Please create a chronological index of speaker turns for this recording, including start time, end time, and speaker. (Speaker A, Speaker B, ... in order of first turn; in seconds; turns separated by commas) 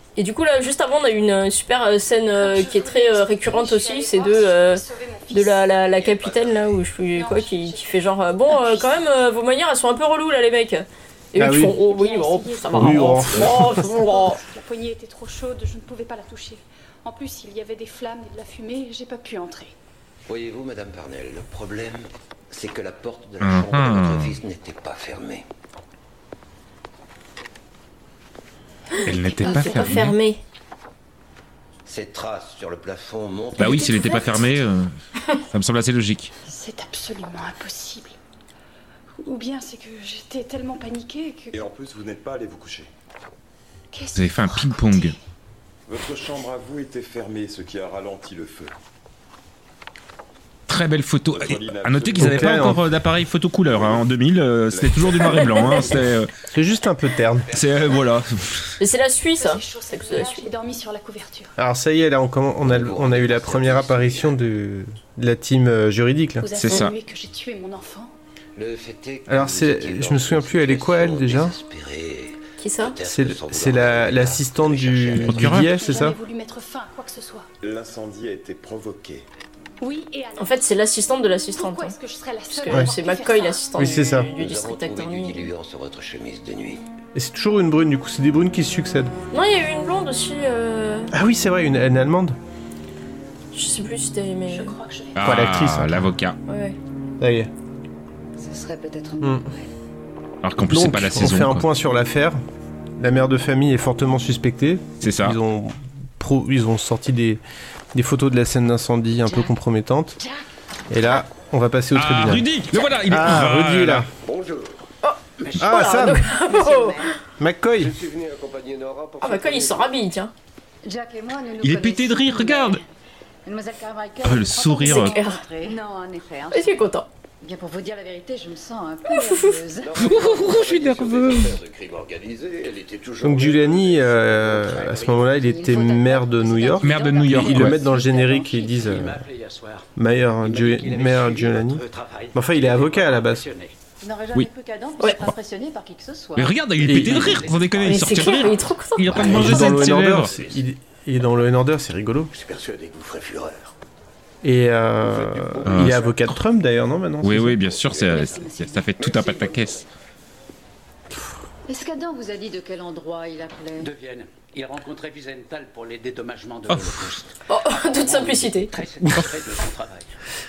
Speaker A: 0.2-14.4, Speaker B: 2.3-5.9, Speaker B: 7.1-9.1, Speaker C: 11.4-11.8, Speaker B: 11.8-19.7, Speaker C: 12.7-13.8, Speaker D: 20.3-25.4, Speaker E: 23.4-24.4, Speaker A: 29.0-30.4, Speaker B: 29.0-30.0, Speaker E: 29.1-30.1, Speaker D: 31.9-34.3, Speaker E: 33.6-35.0, Speaker B: 33.9-34.2, Speaker E: 35.5-36.3, Speaker B: 36.5-38.2, Speaker B: 39.2-41.6, Speaker F: 41.5-42.9, Speaker B: 43.9-45.2, Speaker E: 44.1-45.2, Speaker F: 45.9-48.7, Speaker E: 50.7-56.3, Speaker F: 51.3-52.8, Speaker C: 52.2-52.8, Speaker F: 53.7-54.1, Speaker F: 54.7-55.9, Speaker C: 56.5-57.5, Speaker E: 57.5-58.8, Speaker A: 58.8-60.5, Speaker B: 59.4-61.5, Speaker C: 61.6-66.6, Speaker D: 62.6-64.4, Speaker B: 66.4-68.1, Speaker E: 66.6-66.9, Speaker D: 68.6-75.6, Speaker C: 69.3-71.5, Speaker A: 72.6-73.0, Speaker C: 73.0-76.2, Speaker E: 75.2-75.7, Speaker B: 75.6-77.5, Speaker F: 77.6-79.2, Speaker B: 79.8-80.7, Speaker A: 80.4-82.0, Speaker B: 81.5-84.0, Speaker A: 82.5-85.5, Speaker C: 83.8-84.3, Speaker D: 84.3-86.8, Speaker C: 87.2-89.1, Speaker A: 89.3-91.1, Speaker C: 91.1-92.4, Speaker A: 93.5-94.8, Speaker B: 94.5-95.2, Speaker E: 95.2-96.4, Speaker C: 95.2-96.1, Speaker A: 96.5-96.8, Speaker C: 97.2-97.5, Speaker G: 98.4-99.7, Speaker E: 100.4-101.7, Speaker C: 100.7-102.4, Speaker C: 103.0-107.4, Speaker E: 105.0-105.4, Speaker C: 107.9-110.2, Speaker G: 109.2-109.5, Speaker C: 110.9-112.5, Speaker E: 111.9-114.1, Speaker C: 113.1-114.1, Speaker F: 114.3-114.7, Speaker A: 115.0-117.2, Speaker H: 115.4-115.8, Speaker C: 115.6-116.3, Speaker G: 116.4-117.2, Speaker C: 117.4-117.9, Speaker F: 117.8-119.6, Speaker A: 119.2-120.3, Speaker G: 120.8-122.8, Speaker E: 121.6-122.8, Speaker G: 123.5-130.1, Speaker E: 124.2-125.2, Speaker A: 124.8-125.5, Speaker A: 126.5-127.1, Speaker A: 129.1-129.6, Speaker D: 129.8-135.3, Speaker E: 130.0-131.6, Speaker C: 133.2-139.2, Speaker G: 135.3-138.6, Speaker E: 136.8-137.8, Speaker H: 138.5-139.9, Speaker C: 140.0-143.5, Speaker H: 140.4-143.8, Speaker G: 144.0-146.6, Speaker A: 145.0-145.2, Speaker E: 146.4-150.3, Speaker C: 146.8-147.4, Speaker H: 146.9-148.0, Speaker A: 147.8-149.7, Speaker C: 149.1-152.3, Speaker D: 150.3-150.6, Speaker D: 152.4-153.7, Speaker C: 154.4-157.7, Speaker E: 155.7-156.4, Speaker E: 157.2-159.8, Speaker G: 157.9-159.6, Speaker G: 161.7-163.9, Speaker H: 163.8-170.1, Speaker E: 166.7-167.0, Speaker A: 167.5-168.7